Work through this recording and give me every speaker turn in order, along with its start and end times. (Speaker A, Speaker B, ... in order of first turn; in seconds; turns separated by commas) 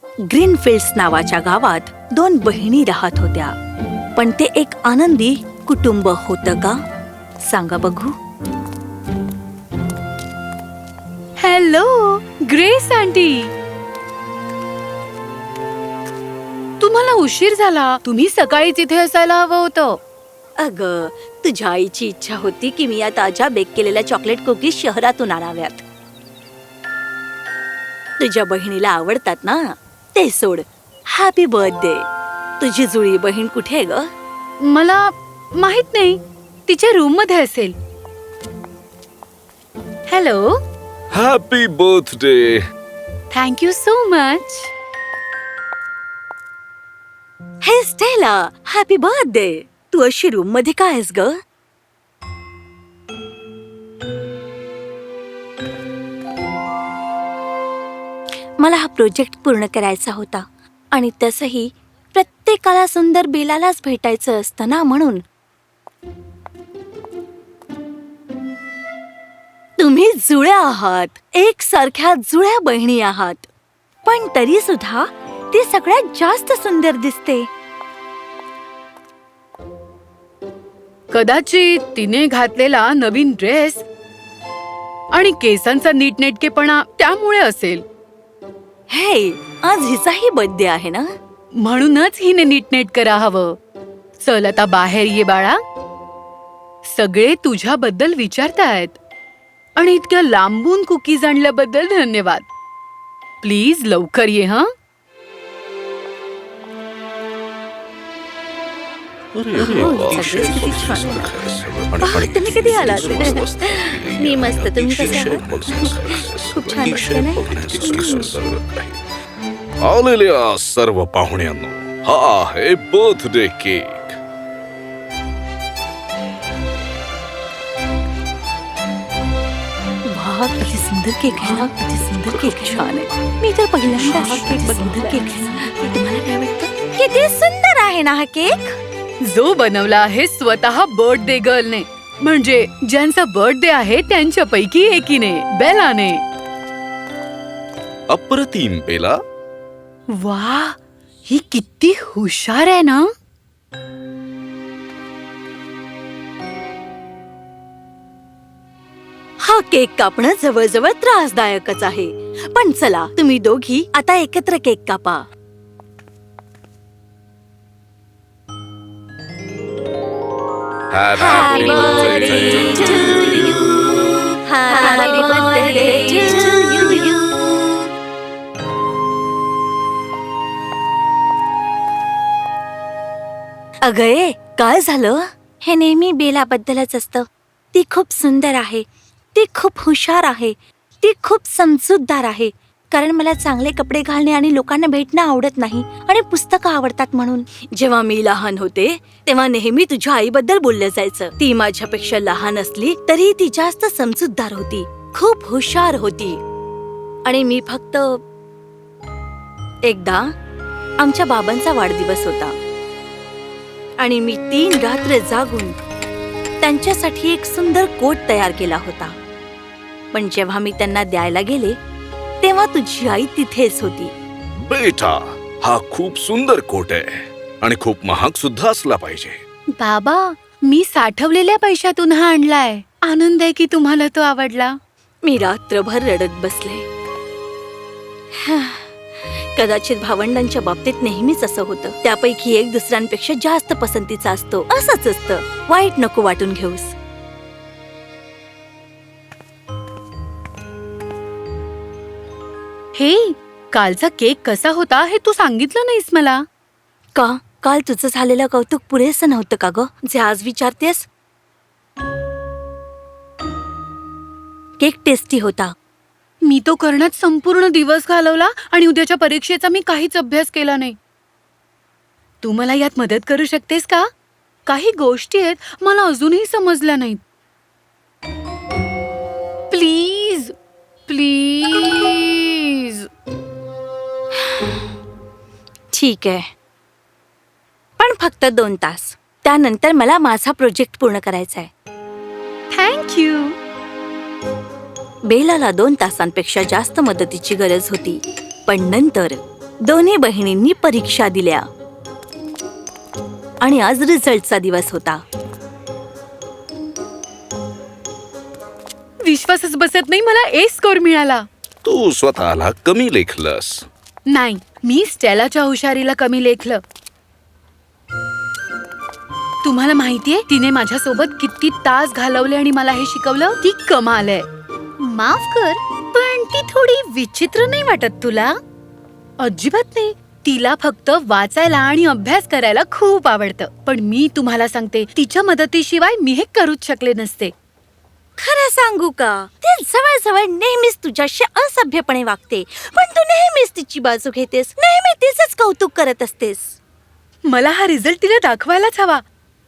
Speaker A: 0.3-3.5, Speaker A: 4.2-6.8, Speaker A: 7.4-8.1, Speaker B: 11.4-13.5, Speaker B: 16.8-20.0, Speaker A: 20.6-25.8, Speaker A: 28.2-32.1, Speaker A: 32.6-34.1, Speaker B: 34.6-37.7, Speaker B: 40.1-40.5, Speaker C: 41.1-42.6, Speaker B: 43.3-44.7, Speaker A: 47.6-51.3, Speaker A: 58.6-65.2, Speaker A: 69.8-73.5, Speaker A: 74.0-77.5, Speaker B: 81.1-83.8, Speaker B: 85.1-87.8, Speaker A: 88.9-91.1, Speaker B: 91.6-93.5, Speaker B: 94.2-95.6, Speaker B: 96.9-99.0, Speaker B: 99.8-102.5, Speaker B: 103.4-104.7, Speaker C: 109.3-119.0, Speaker A: 109.5-111.3, Speaker A: 112.0-118.4, Speaker C: 119.8-124.2, Speaker A: 130.1-138.8, Speaker B: 133.8-135.7, Speaker B: 139.3-146.2, Speaker C: 148.1-149.2, Speaker B: 150.2-153.0, Speaker A: 159.4-165.2, Speaker C: 170.9-173.9, Speaker A: 171.2-177.9, Speaker A: 183.8-206.4, Speaker A: 207.2-208.2, Speaker A: 209.8-210.3, Speaker A: 211.0-212.5, Speaker A: 214.0-215.8, Speaker A: 216.6-219.1, Speaker A: 220.1-221.8, Speaker A: 222.4-224.1, Speaker C: 224.6-229.4, Speaker B: 229.8-234.7, Speaker A: 235.2-236.8, Speaker A: 238.3-246.9, Speaker B: 252.9-256.4, Speaker A: 257.1-261.1, Speaker A: 264.8-265.7, Speaker B: 266.4-270.9, Speaker B: 272.4-274.1, Speaker B: 274.7-277.2, Speaker B: 279.7-280.5, Speaker B: 281.1-283.1, Speaker A: 285.9-286.4, Speaker A: 288.0-291.7, Speaker B: 292.7-293.5, Speaker A: 295.3-301.6, Speaker A: 303.6-305.2, Speaker B: 309.2-311.4, Speaker C: 311.8-313.9, Speaker B: 314.3-316.8, Speaker B: 319.6-324.4, Speaker B: 325.0-328.5, Speaker B: 329.4-337.5, Speaker A: 338.4-346.8, Speaker B: 347.5-349.2